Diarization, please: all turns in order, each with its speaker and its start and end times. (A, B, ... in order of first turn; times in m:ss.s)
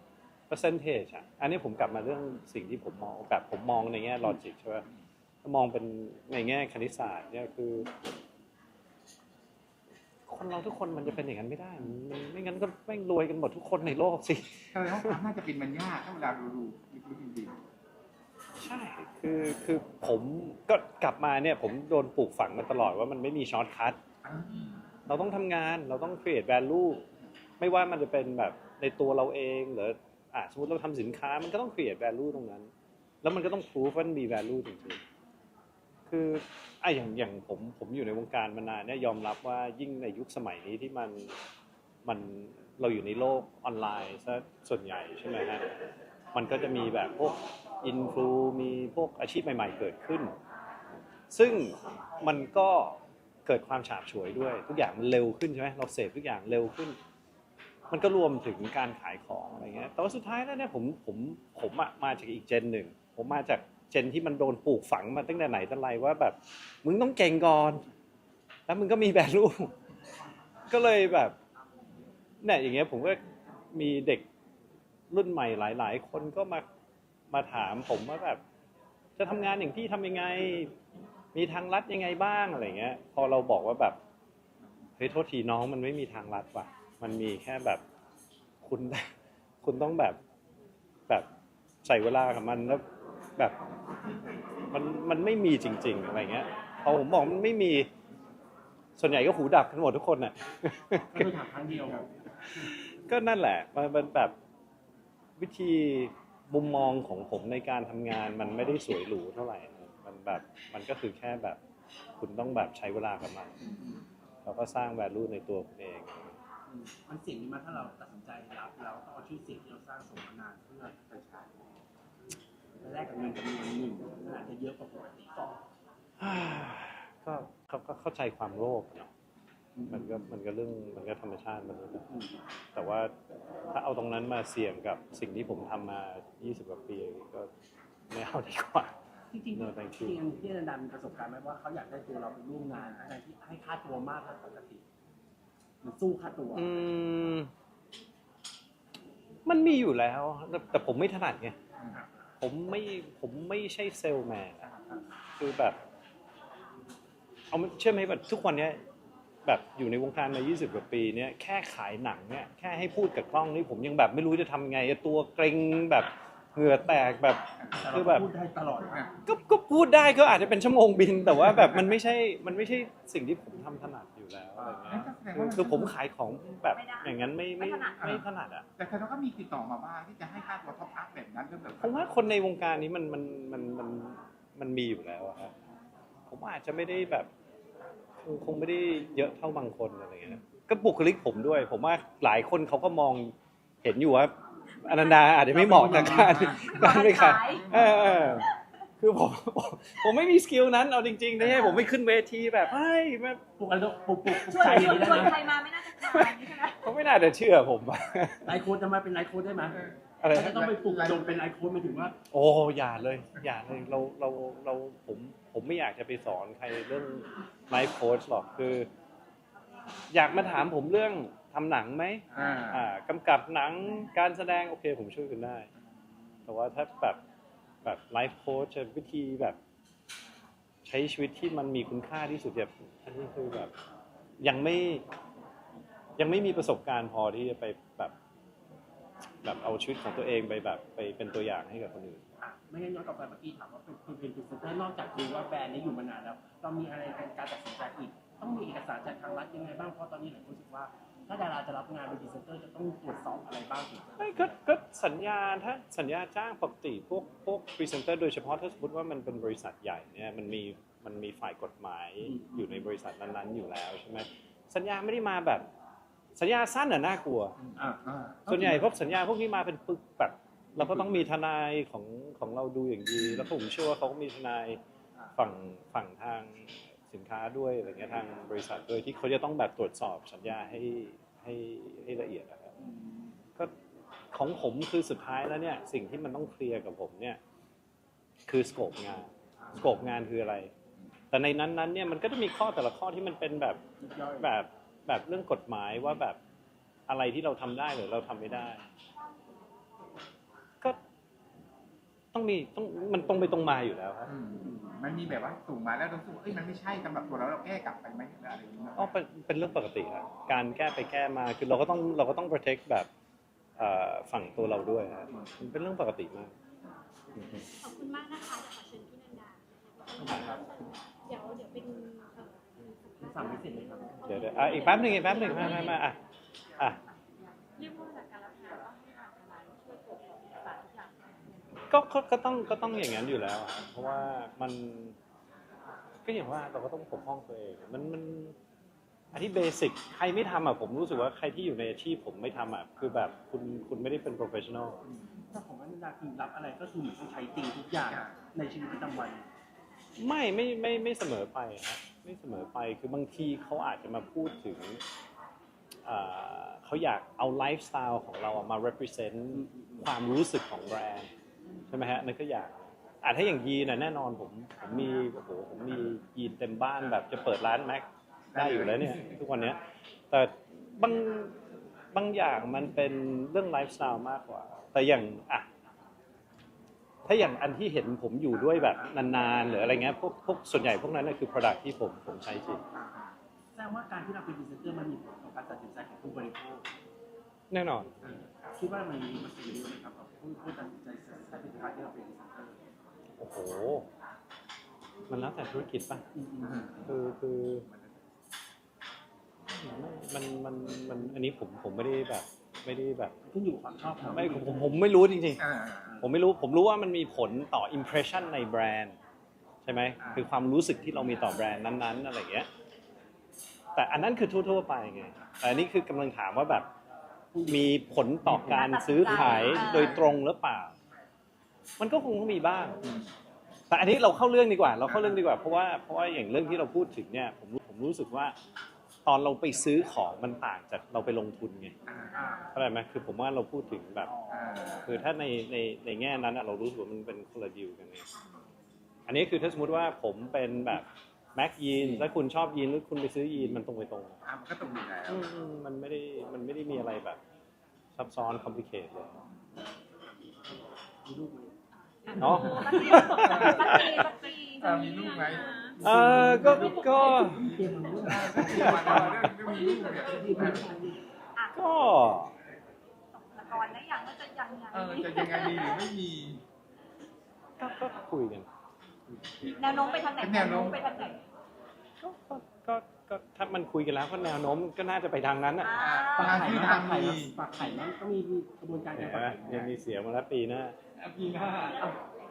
0:00.5-0:04.8 A
0:05.4-0:07.9 A
0:10.3-0:15.2 A
0:14.7-0:17.6 B
0:18.6-0:24.0 A
0:24.2-0:24.8 B
0:25.1-0:27.0 A
0:27.6-0:32.7 A
0:33.2-0:35.0 A
0:36.1-0:41.4 A
0:42.0-0:45.6 A
0:46.3-0:50.4 A
0:51.3-0:57.0 A
0:57.9-1:07.8 A
1:08.7-1:09.7 A
1:10.7-1:11.4 A
1:12.4-1:13.2 A
1:13.7-1:14.3 A
1:15.1-1:16.6 A
1:17.3-1:18.4 A
1:19.2-1:20.7 A
1:21.3-1:24.0 A
1:25.0-1:27.8 A
1:28.6-1:29.1 A
1:29.6-1:30.2 A
1:31.8-1:32.8 A
1:34.7-1:37.9 A
1:39.0-1:41.3 A
1:41.1-1:42.1 C
1:42.5-1:44.3 A
1:45.4-1:51.6 A
1:52.2-1:53.6 A
1:54.4-1:56.4 A
1:56.7-2:01.5 C
2:02.8-2:05.6 C
2:06.2-2:09.1 A
2:09.8-2:10.0 C
2:09.9-2:12.2 A
2:12.8-2:13.1 A
2:13.7-2:17.5 A
2:18.1-2:18.9 A
2:19.3-2:24.8 C
2:19.5-2:20.2 A
2:25.8-2:26.8 C
2:26.5-2:27.5 A
2:29.5-2:31.6 A
2:32.4-2:34.7 A
2:35.4-2:35.8 A
2:37.5-2:38.8 A
2:39.4-2:48.3 A
2:47.8-2:49.1 C
2:49.2-2:58.7 A
2:54.6-2:54.9 C
2:54.9-2:56.0 B
2:56.7-2:58.0 D
2:58.0-2:58.2 B
2:58.8-3:02.1 B
3:01.8-3:05.5 A
3:06.3-3:07.3 A
3:08.2-3:18.5 A
3:14.9-3:15.3 D
3:15.5-3:16.6 C
3:15.9-3:16.9 B
3:16.6-3:17.8 D
3:17.6-3:18.5 B
3:19.0-3:23.4 A
3:23.6-3:25.4 C
3:24.3-3:25.4 A
3:24.5-3:26.9 D
3:25.9-3:28.5 A
3:28.4-3:29.8 C
3:30.2-3:30.7 A
3:30.3-3:32.2 C
3:30.7-3:31.3 B
3:32.3-3:38.9 A
3:40.1-3:45.7 A
3:42.3-3:42.9 B
3:46.5-3:47.2 A
3:47.8-3:49.6 A
3:50.8-3:53.7 A
3:54.4-3:55.0 A
3:56.2-3:58.1 A
3:59.4-4:02.2 A
4:02.4-4:14.5 C
4:14.2-4:25.7 A
4:22.2-4:22.7 C
4:26.4-4:27.6 A
4:27.6-4:28.5 B
4:27.8-4:28.8 C
4:28.5-4:34.8 A
4:30.8-4:31.2 B
4:35.4-4:42.7 A
4:42.8-4:43.3 C
4:44.3-4:47.4 A
4:48.5-4:50.7 A
4:51.3-4:53.8 A
4:54.0-4:54.5 C
4:54.4-4:56.4 A
4:57.1-4:58.8 A
5:02.3-5:04.3 A
5:04.3-5:09.1 B
5:09.0-5:13.1 A
5:13.8-5:16.5 A
5:17.3-5:17.6 A
5:17.8-5:26.0 E
5:20.2-5:20.6 C
5:23.2-5:24.2 C
5:24.2-5:26.2 A
5:24.8-5:25.9 D
5:27.8-5:31.3 E
5:31.9-5:35.2 A
5:36.2-5:38.6 A
5:39.3-5:45.0 A
5:45.0-5:45.4 B
5:45.5-5:49.4 C
5:48.1-5:48.4 B
5:50.2-5:55.0 A
5:56.0-6:01.3 A
5:59.5-6:00.1 C
6:01.9-6:09.8 A
6:04.8-6:05.1 D
6:08.5-6:09.4 B
6:10.3-6:11.6 A
6:12.1-6:15.7 A
6:17.2-6:22.8 A
6:18.7-6:19.1 C
6:23.7-6:26.9 C
6:27.7-6:28.1 A
6:28.2-6:32.8 C
6:33.4-6:34.1 A
6:35.3-6:36.2 A
6:36.4-6:36.9 C
6:36.6-6:37.1 B
6:37.1-6:37.9 A
6:37.9-6:38.2 B
6:39.7-6:43.3 A
6:43.5-6:45.0 C
6:44.3-6:45.6 A
6:45.6-6:46.1 B
6:46.2-6:49.2 A
6:49.8-6:52.7 A
6:50.2-6:50.4 B
6:54.0-6:56.9 A
6:57.5-6:57.9 C
6:57.7-7:01.0 A
6:58.5-6:58.8 C
6:58.7-7:00.2 D
6:59.3-7:00.4 B
7:02.0-7:03.0 A
7:03.0-7:03.3 B
7:03.9-7:08.6 A
7:05.1-7:05.4 B
7:09.3-7:11.9 A
7:12.1-7:12.4 B
7:12.3-7:12.7 D
7:12.4-7:12.6 C
7:12.7-7:14.3 A
7:14.5-7:15.2 B
7:15.0-7:18.3 A
7:19.3-7:24.4 A
7:22.0-7:22.2 B
7:24.4-7:25.5 B
7:25.3-7:27.4 A
7:28.2-7:29.4 A
7:31.2-7:31.8 C
7:32.3-7:36.0 E
7:32.3-7:35.2 D
7:32.4-7:32.7 C
7:32.4-7:34.2 A
7:34.8-7:35.7 B
7:36.0-7:39.6 C
7:36.0-7:37.7 A
7:36.8-7:37.6 E
7:37.7-7:41.1 B
7:38.6-7:39.5 A
7:40.1-7:41.2 C
7:41.7-7:42.5 A
7:43.3-7:46.1 D
7:44.9-7:46.6 B
7:47.8-7:48.7 A
7:49.6-7:51.4 D
7:50.0-7:50.3 E
7:50.4-7:51.0 B
7:52.2-7:56.0 A
7:55.8-7:56.6 D
7:56.0-7:57.6 B
7:56.3-7:59.9 C
7:59.1-8:01.0 A
8:01.2-8:02.2 B